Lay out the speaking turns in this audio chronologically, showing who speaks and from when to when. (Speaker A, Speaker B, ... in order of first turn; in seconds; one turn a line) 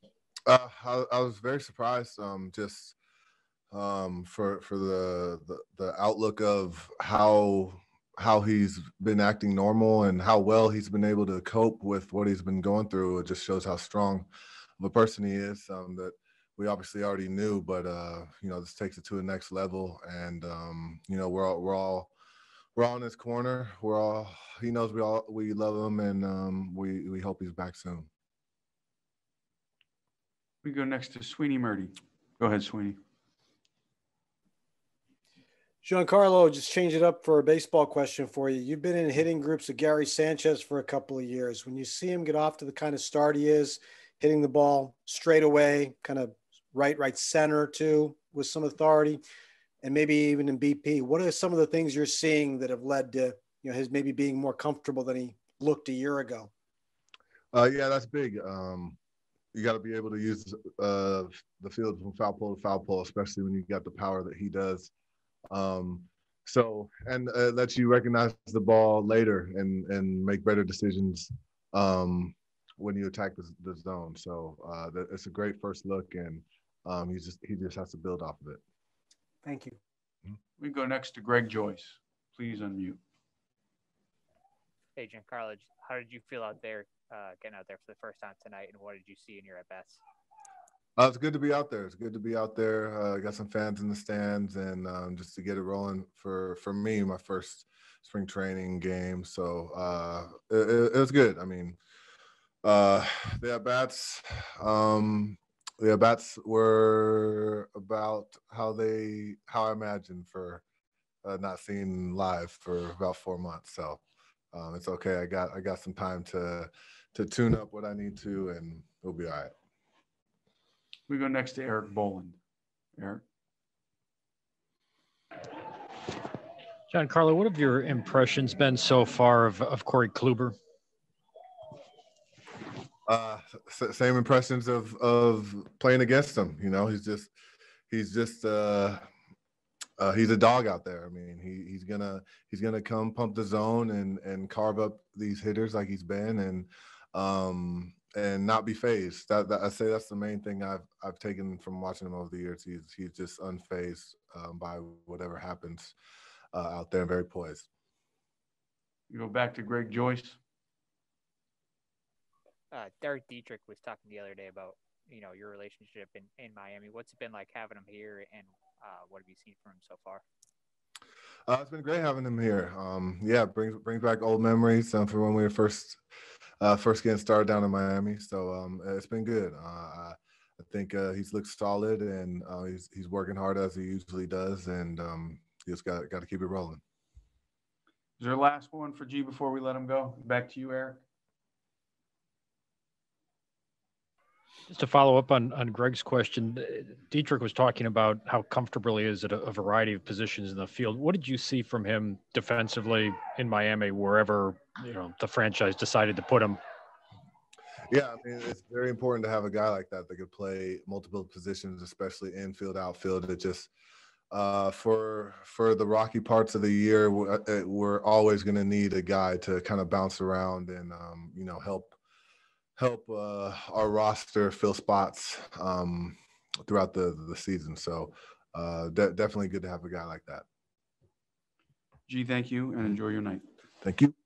Speaker A: 0.5-3.0
Speaker A: 3.7-14.3
Speaker A: 14.8-22.1
Speaker A: 22.8-28.1
Speaker B: 30.6-33.0
Speaker C: 35.8-49.2
Speaker C: 49.8-56.5
Speaker A: 57.5-59.0
Speaker A: 59.5-64.9
Speaker A: 65.5-78.6
Speaker C: 79.4-79.8
Speaker B: 80.6-83.0
Speaker D: 85.0-90.0
Speaker A: 91.0-101.8
Speaker A: 102.6-110.6
Speaker A: 111.2-114.0
Speaker A: 114.5-119.5
Speaker B: 121.1-122.4
Speaker B: 123.0-123.2
Speaker E: 126.9-130.6
Speaker A: 133.1-137.3
Speaker A: 137.9-139.0
Speaker A: 140.0-155.9
Speaker A: 156.5-157.7
Speaker B: 159.1-160.4
Speaker D: 162.7-170.2
Speaker A: 171.5-176.0
Speaker A: 176.6-186.8
Speaker B: 188.2-191.0
Speaker E: 194.7-206.6
Speaker A: 207.9-213.7
Speaker A: 214.3-221.9
Speaker A: 222.8-230.4
Speaker B: 232.1-233.4
Speaker A: 233.8-234.1